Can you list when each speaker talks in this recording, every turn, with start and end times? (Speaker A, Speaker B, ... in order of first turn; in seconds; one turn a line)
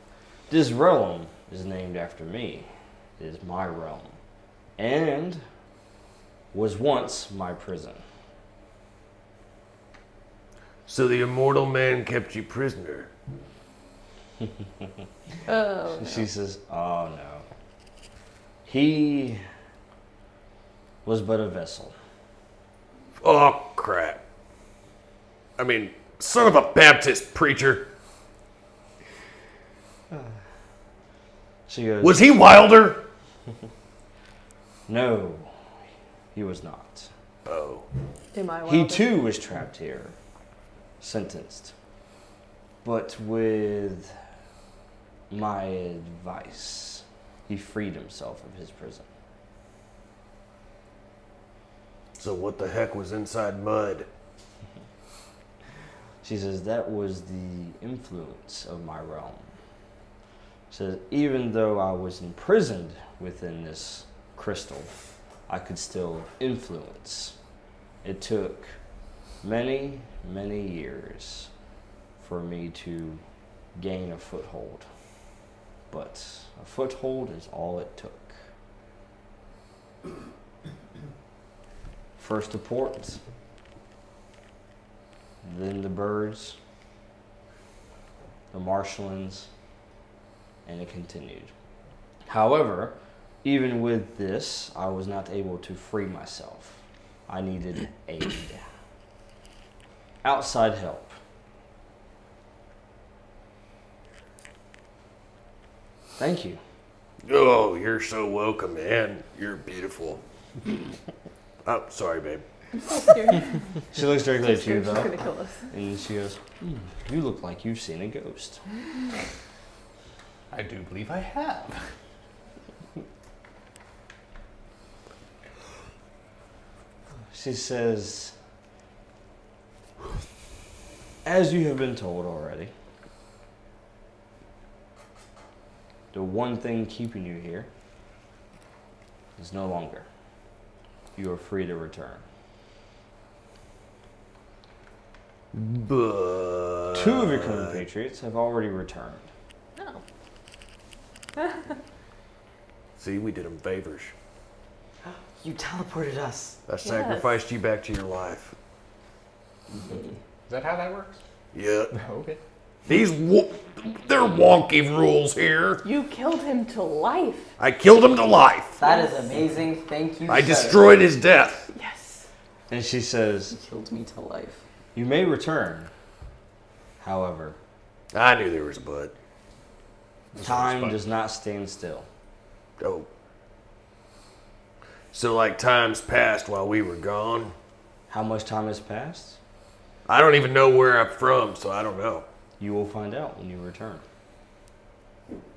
Speaker A: 0.5-4.1
Speaker A: 4.8-5.4
Speaker A: 6.5-8.0
Speaker B: 10.9-13.1
Speaker C: 15.5-16.2
Speaker A: 15.9-17.4
Speaker A: 18.6-19.4
Speaker A: 21.0-21.9
Speaker B: 23.2-24.2
Speaker B: 25.6-27.9
Speaker A: 31.7-32.3
Speaker B: 32.0-33.0
Speaker A: 34.9-35.5
Speaker A: 36.3-37.1
Speaker B: 37.4-37.9
Speaker C: 38.3-39.2
Speaker A: 38.7-40.1
Speaker A: 41.0-41.7
Speaker A: 42.8-44.1
Speaker A: 45.3-49.0
Speaker B: 52.2-54.1
Speaker A: 56.2-59.5
Speaker A: 60.7-64.9
Speaker A: 65.5-67.4
Speaker A: 68.0-68.8
Speaker A: 69.4-71.5
Speaker A: 72.2-73.2
Speaker A: 73.8-74.9
Speaker A: 75.9-78.4
Speaker A: 82.2-83.2
Speaker A: 85.4-86.6
Speaker A: 88.5-89.5
Speaker A: 90.7-91.5
Speaker A: 92.3-98.6
Speaker A: 100.2-101.1
Speaker A: 106.2-106.6
Speaker B: 107.2-110.2
Speaker B: 111.6-112.4
Speaker C: 112.7-115.7
Speaker A: 113.9-115.1
Speaker A: 115.7-118.6
Speaker D: 120.5-121.8
Speaker A: 127.3-128.3
Speaker A: 131.2-132.7
Speaker A: 136.1-137.7
Speaker A: 139.4-140.1
Speaker A: 141.1-142.2
Speaker B: 145.5-147.8
Speaker A: 146.9-149.3
Speaker C: 149.8-150.0
Speaker B: 153.0-154.1
Speaker E: 155.0-156.6
Speaker B: 156.7-158.5
Speaker C: 156.8-157.4
Speaker D: 160.5-161.2
Speaker B: 161.5-161.9
Speaker D: 161.9-162.4
Speaker B: 162.9-165.8
Speaker C: 165.8-167.5
Speaker B: 167.6-168.8
Speaker E: 168.8-170.9
Speaker C: 168.8-169.4
Speaker B: 170.3-171.7
Speaker C: 171.7-172.3
Speaker A: 172.7-173.6
Speaker E: 173.5-174.6
Speaker A: 174.9-175.9
Speaker A: 177.0-177.6
Speaker B: 178.1-179.1
Speaker D: 180.3-181.0
Speaker A: 180.4-182.1
Speaker B: 182.8-183.1
Speaker B: 185.1-187.5
Speaker A: 188.1-189.4
Speaker B: 190.1-192.2
Speaker A: 192.6-194.0